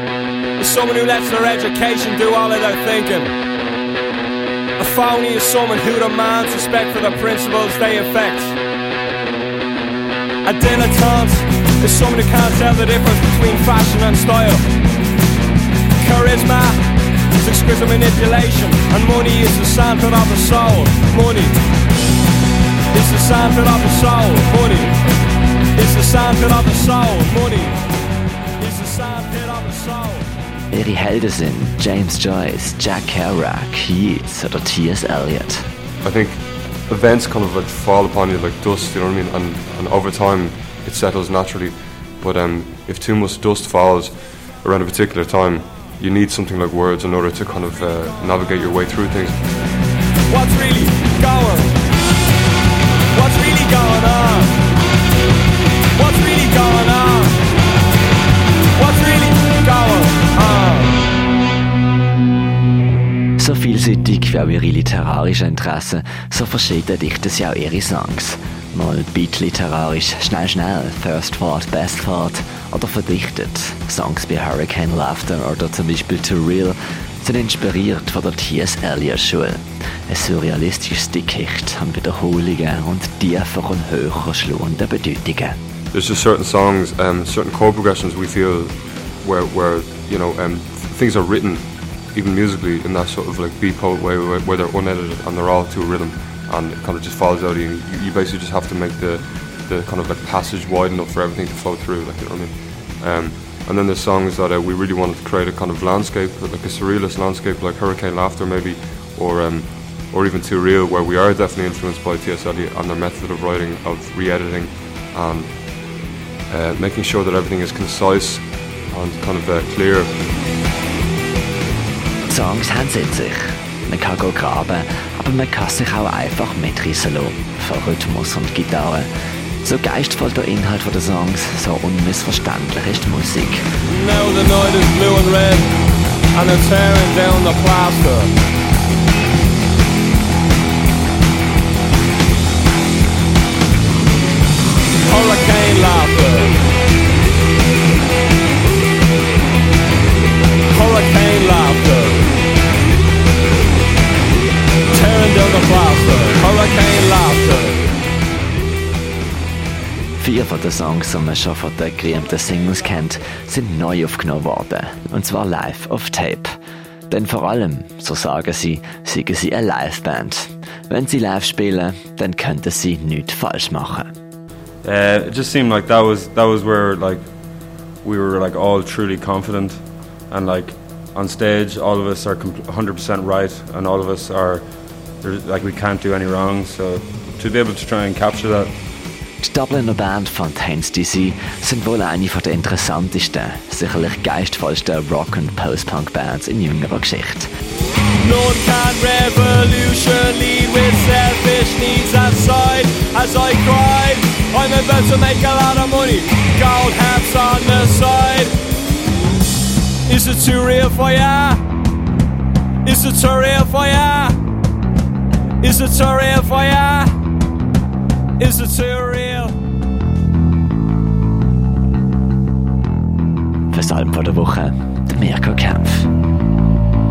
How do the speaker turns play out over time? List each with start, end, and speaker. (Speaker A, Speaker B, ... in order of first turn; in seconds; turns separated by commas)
Speaker A: 0.6-3.3, Speaker A: 4.8-8.6, Speaker A: 10.4-14.6, Speaker A: 16.0-21.6, Speaker A: 22.9-25.0, Speaker A: 25.8-27.8, Speaker A: 28.6-30.3, Speaker B: 30.7-35.7, Speaker C: 36.0-49.5, Speaker A: 50.3-51.8, Speaker A: 53.1-54.6, Speaker A: 55.9-57.4, Speaker A: 58.8-61.0, Speaker B: 63.4-85.6, Speaker C: 85.9-115.7, Speaker C: 116.5-120.2, Speaker B: 122.2-129.1, Speaker B: 129.6-133.6, Speaker A: 133.9-135.7, Speaker A: 136.3-138.3, Speaker A: 145.0-146.6, Speaker A: 150.7-152.2, Speaker A: 154.9-157.8, Speaker B: 160.2-166.5, Speaker B: 167.1-174.1, Speaker D: 174.8-177.3, Speaker D: 177.8-188.7, Speaker B: 189.4-197.5, Speaker A: 198.2-208.5, Speaker A: 210.1-211.6, Speaker A: 212.8-214.3, Speaker A: 215.6-217.1, Speaker A: 218.4-219.5, Speaker B: 223.7-226.1